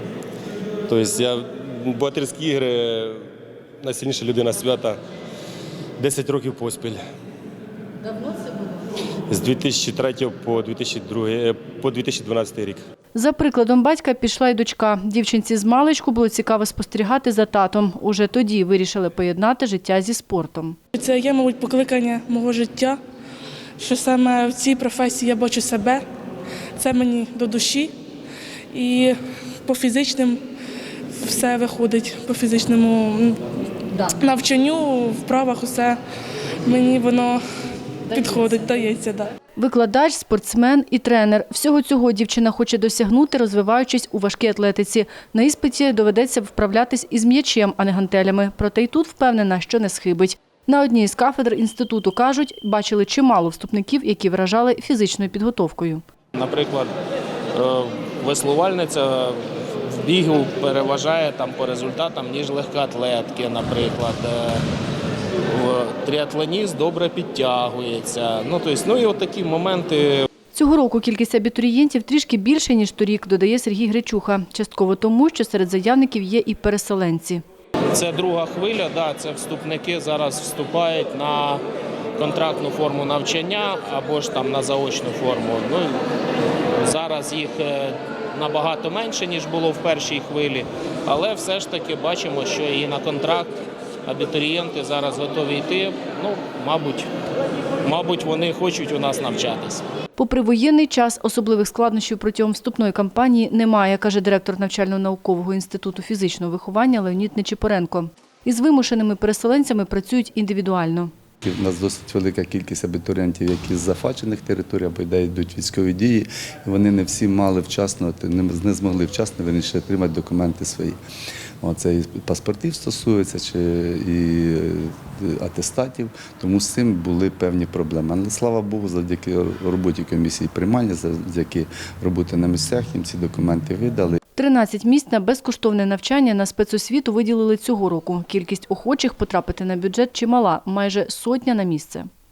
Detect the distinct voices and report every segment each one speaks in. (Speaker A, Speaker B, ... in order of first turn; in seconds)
Speaker A: 0.9-3.2, 3.9-4.9, 6.0-7.0, 9.3-12.8
Speaker B: 13.1-20.8, 39.5-56.0, 70.5-77.4, 100.2-111.1, 134.4-142.1
Speaker C: 20.9-23.0, 23.8-26.1, 26.8-27.9, 28.7-30.4, 31.1-33.4, 34.1-36.0, 36.6-37.4, 38.1-39.3
Speaker D: 56.3-56.9, 57.5-64.6, 65.5-70.2, 77.9-81.6, 82.2-86.0, 86.8-93.5, 94.0-97.1, 97.8-99.8
Speaker E: 111.4-121.0, 121.6-134.2